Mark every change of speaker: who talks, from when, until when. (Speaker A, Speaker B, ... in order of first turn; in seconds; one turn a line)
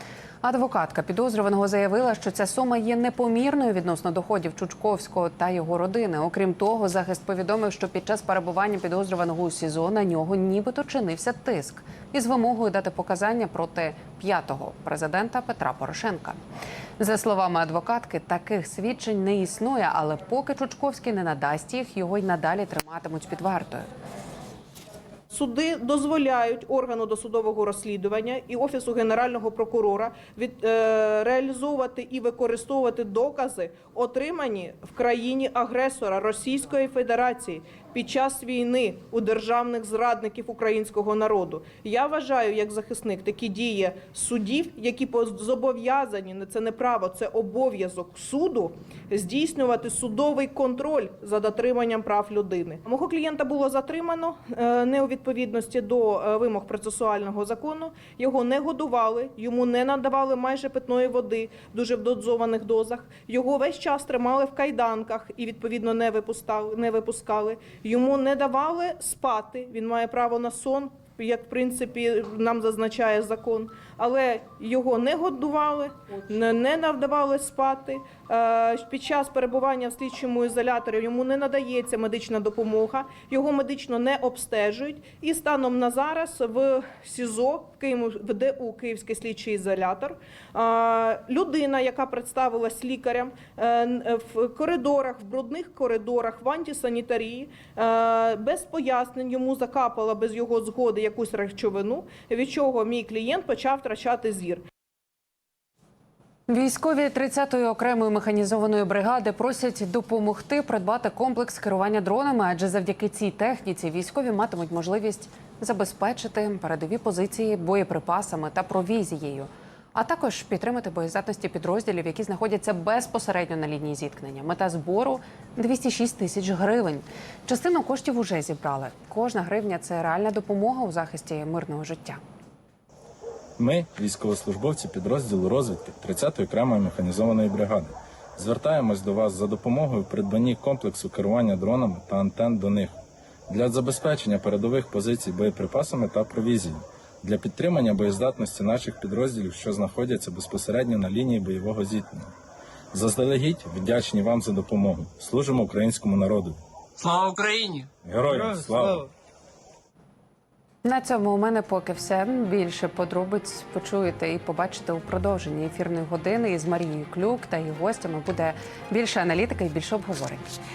Speaker A: 0.4-16.4
Speaker A: 17.0-23.9
Speaker B: 25.3-104.6
Speaker A: 106.5-132.2
Speaker C: 133.6-142.9
Speaker C: 143.5-152.3
Speaker C: 152.9-156.6
Speaker D: 157.0-159.0
Speaker C: 158.0-159.1
Speaker A: 160.8-170.5